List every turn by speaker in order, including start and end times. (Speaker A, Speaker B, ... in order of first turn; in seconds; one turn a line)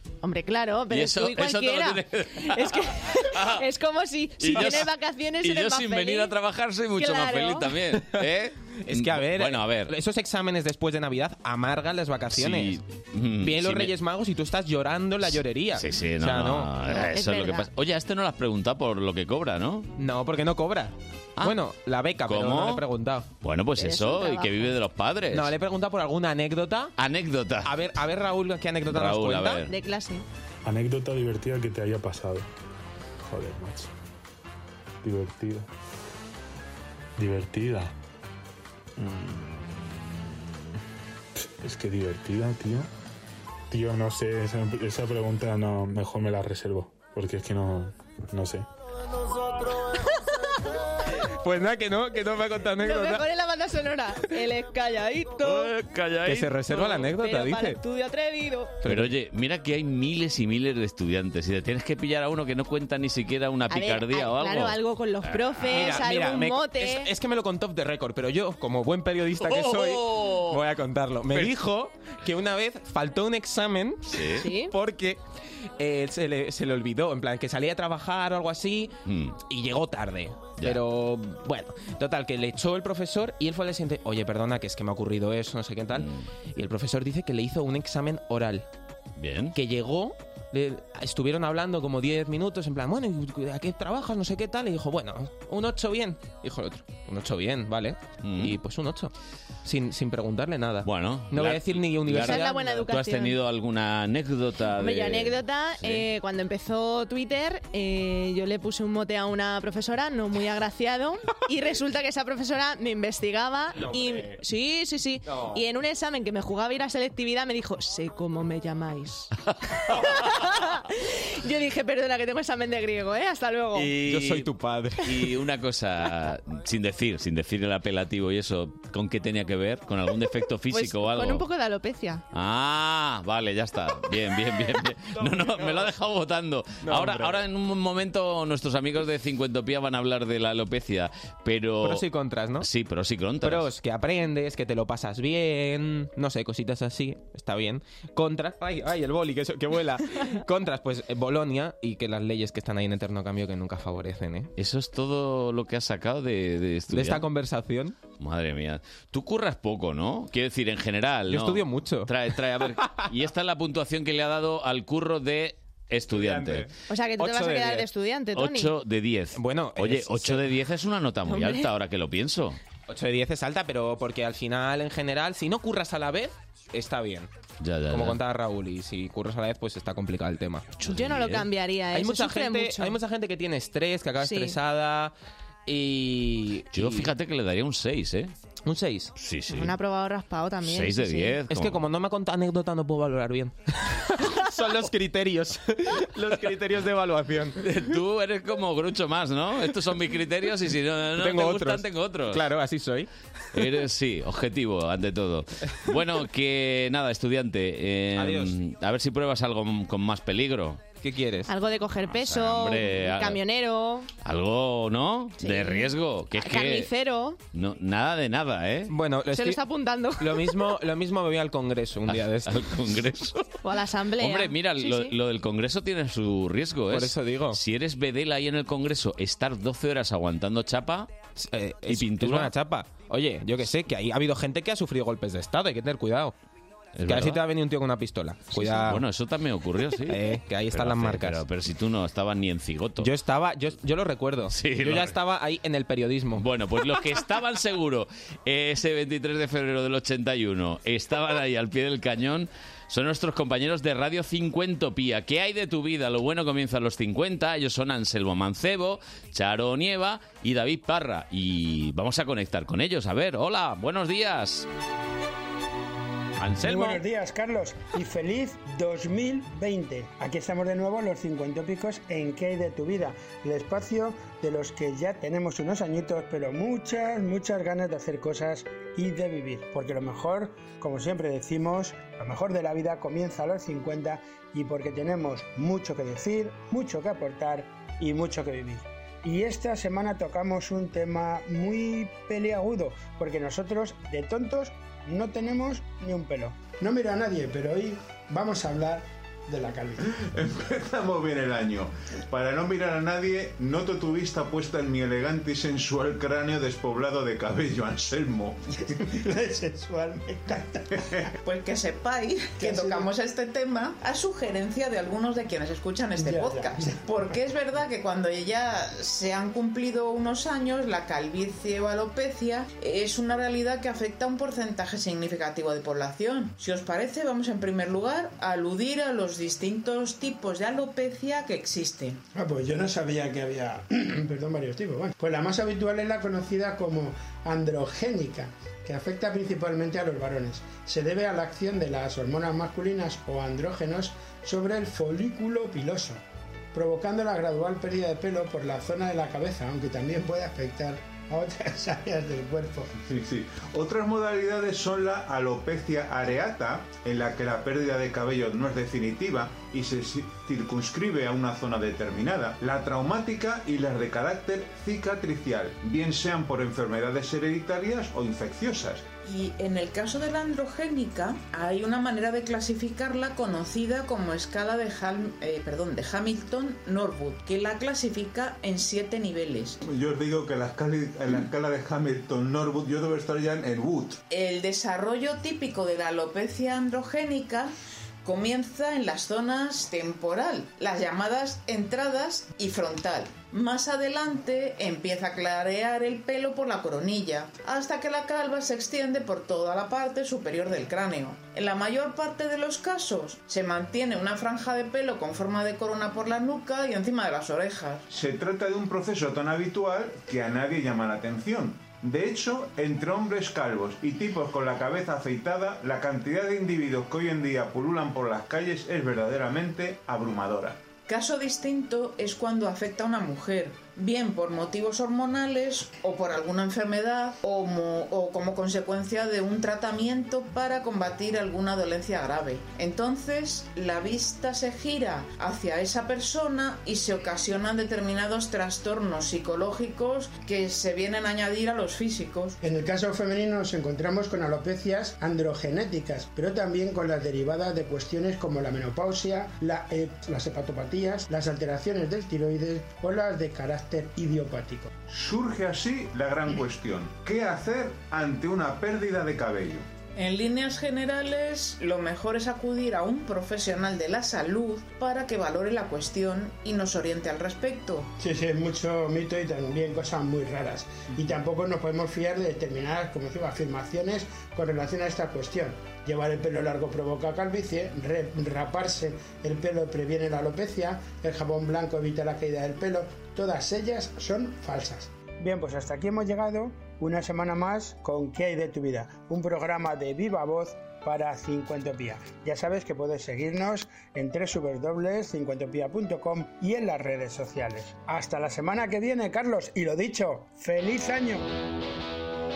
Speaker A: 0.2-6.3
Speaker B: 0.9-3.6
Speaker B: 4.4-9.9
Speaker A: 7.0-7.7
Speaker C: 8.8-12.8
Speaker B: 12.3-13.9
Speaker C: 13.4-16.8
Speaker B: 15.3-19.9
Speaker A: 16.9-17.7
Speaker C: 20.0-23.3
Speaker B: 22.2-22.8
Speaker B: 23.4-25.5
Speaker A: 23.8-24.7
Speaker C: 25.3-26.9
Speaker B: 27.0-27.7
Speaker C: 27.6-29.6
Speaker B: 28.9-29.7
Speaker A: 29.6-30.2
Speaker D: 30.6-32.5
Speaker D: 33.2-33.9
Speaker D: 35.0-35.7
Speaker D: 37.2-37.9
Speaker D: 39.0-40.2
Speaker D: 41.4-42.9
Speaker D: 43.7-48.6
Speaker C: 51.2-53.2
Speaker A: 52.8-55.7
Speaker B: 55.4-56.5
Speaker C: 56.2-57.8
Speaker A: 56.7-58.8
Speaker C: 58.8-59.1
Speaker B: 58.8-66.0
Speaker A: 63.7-67.1
Speaker C: 65.7-75.2
Speaker B: 69.4-70.6
Speaker B: 74.1-74.5
Speaker A: 74.4-74.7
Speaker C: 75.8-88.7
Speaker B: 79.1-79.4
Speaker B: 85.9-86.2
Speaker B: 89.2-89.5
Speaker C: 89.5-99.1
Speaker B: 98.2-98.6
Speaker C: 99.6-102.7
Speaker B: 100.8-106.0
Speaker A: 102.2-103.3
Speaker A: 104.8-123.9
Speaker B: 123.7-124.5
Speaker C: 124.0-125.3
Speaker B: 125.0-131.4
Speaker A: 130.7-132.2
Speaker B: 132.3-142.0
Speaker C: 135.2-135.8
Speaker C: 136.8-137.4
Speaker C: 141.8-142.7
Speaker B: 142.6-143.7
Speaker C: 143.4-154.5
Speaker B: 154.6-157.3
Speaker C: 156.9-157.9
Speaker B: 158.2-166.7
Speaker C: 161.3-162.1
Speaker C: 166.1-166.7
Speaker A: 166.9-168.7
Speaker C: 167.2-167.9
Speaker B: 168.3-172.6
Speaker C: 169.3-170.4
Speaker A: 171.3-171.7
Speaker C: 172.9-177.3
Speaker B: 177.6-178.2
Speaker C: 177.9-180.8
Speaker B: 180.8-181.4
Speaker A: 180.9-183.0
Speaker C: 181.9-185.1
Speaker A: 184.2-184.6
Speaker C: 185.7-187.1
Speaker B: 186.7-188.3
Speaker C: 188.7-189.1
Speaker B: 189.2-189.7
Speaker A: 189.5-191.4
Speaker B: 190.6-191.8
Speaker C: 191.5-197.6
Speaker B: 197.6-202.5
Speaker C: 201.2-203.1
Speaker B: 203.5-210.9
Speaker C: 208.1-208.6
Speaker C: 211.0-211.5
Speaker A: 211.5-214.1
Speaker B: 212.0-213.4
Speaker B: 214.2-216.9
Speaker A: 215.4-217.4
Speaker B: 217.5-218.9
Speaker C: 218.9-219.6
Speaker A: 219.3-220.7
Speaker C: 220.2-222.7
Speaker B: 222.1-223.6
Speaker A: 223.6-225.1
Speaker B: 224.2-231.1
Speaker C: 226.9-227.6
Speaker C: 231.4-236.3
Speaker B: 231.9-232.5
Speaker B: 236.9-237.4
Speaker C: 237.1-239.0
Speaker B: 238.5-243.1
Speaker C: 240.1-241.4
Speaker C: 243.0-246.5
Speaker B: 244.5-245.2
Speaker B: 246.4-264.7
Speaker B: 266.4-267.0
Speaker E: 266.6-300.0
Speaker F: 300.1-308.6
Speaker E: 309.0-311.0
Speaker G: 311.4-332.2
Speaker E: 312.6-313.1
Speaker E: 316.2-317.1
Speaker E: 332.3-346.2
Speaker E: 346.7-352.9
Speaker F: 353.1-369.0
Speaker G: 369.2-379.8
Speaker F: 379.8-384.2
Speaker G: 384.3-387.7
Speaker G: 388.2-408.0
Speaker F: 408.1-420.8
Speaker G: 421.1-442.6
Speaker E: 442.6-454.9
Speaker F: 455.1-459.9
Speaker G: 460.1-468.1
Speaker E: 468.2-501.5